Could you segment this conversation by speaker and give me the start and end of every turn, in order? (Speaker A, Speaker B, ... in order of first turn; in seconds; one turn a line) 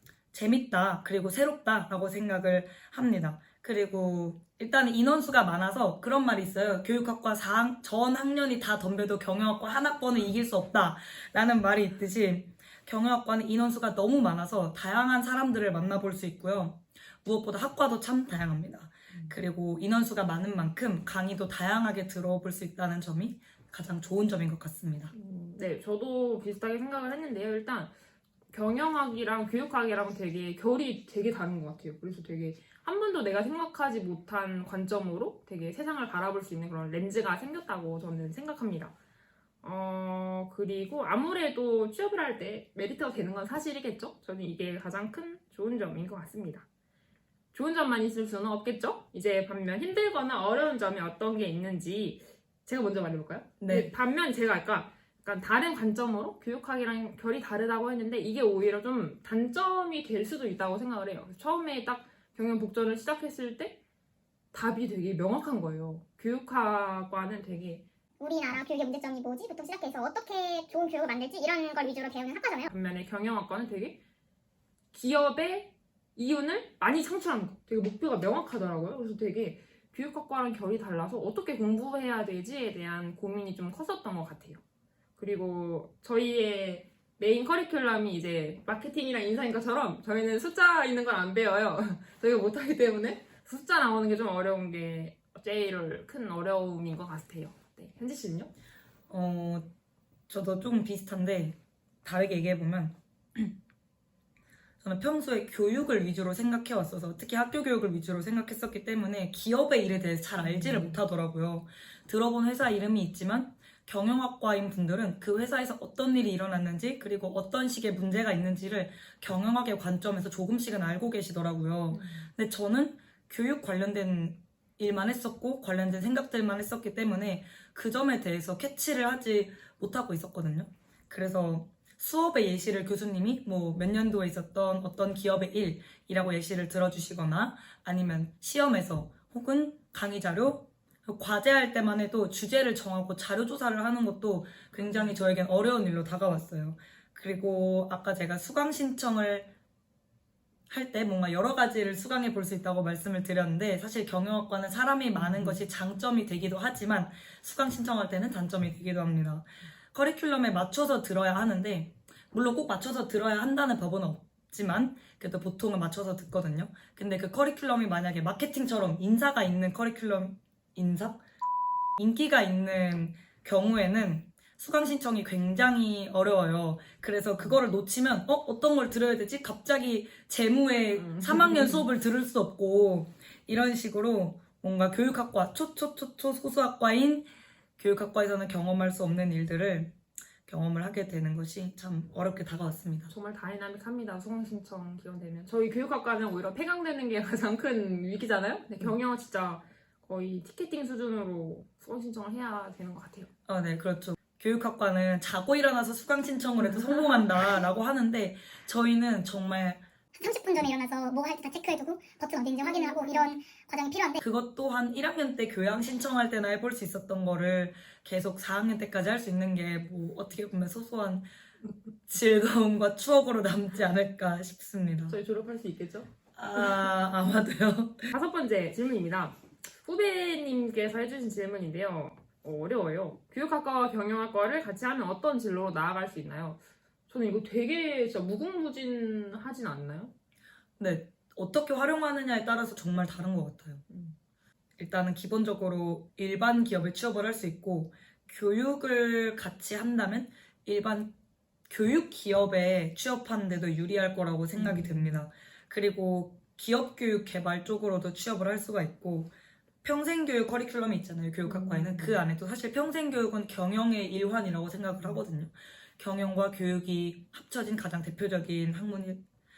Speaker A: 0.3-25.1
Speaker B: 25.1-27.9
Speaker B: 28.5-38.9
Speaker B: 39.6-46.6
Speaker B: 47.5-63.8
Speaker A: 53.6-53.9
Speaker B: 64.5-67.8
Speaker C: 68.2-72.7
Speaker B: 72.7-74.0
Speaker B: 74.9-84.6
Speaker B: 85.2-98.5
Speaker A: 99.1-99.7
Speaker A: 100.3-103.5
Speaker A: 104.8-149.5
Speaker B: 110.4-111.0
Speaker B: 121.9-122.3
Speaker B: 144.7-145.2
Speaker A: 150.7-171.2
Speaker B: 155.1-155.7
Speaker A: 172.0-187.3
Speaker B: 180.9-181.9
Speaker A: 187.8-189.9
Speaker A: 190.5-193.1
Speaker B: 193.1-203.3
Speaker A: 203.5-209.8
Speaker B: 206.6-207.3
Speaker C: 210.2-214.2
Speaker B: 212.6-213.3
Speaker A: 214.2-221.3
Speaker A: 222.1-225.2
Speaker B: 225.1-226.8
Speaker A: 226.3-228.1
Speaker B: 228.1-240.1
Speaker A: 240.8-243.8
Speaker B: 243.9-244.2
Speaker A: 244.8-251.1
Speaker A: 251.7-259.3
Speaker B: 254.6-255.2
Speaker A: 259.8-269.2
Speaker B: 261.4-262.2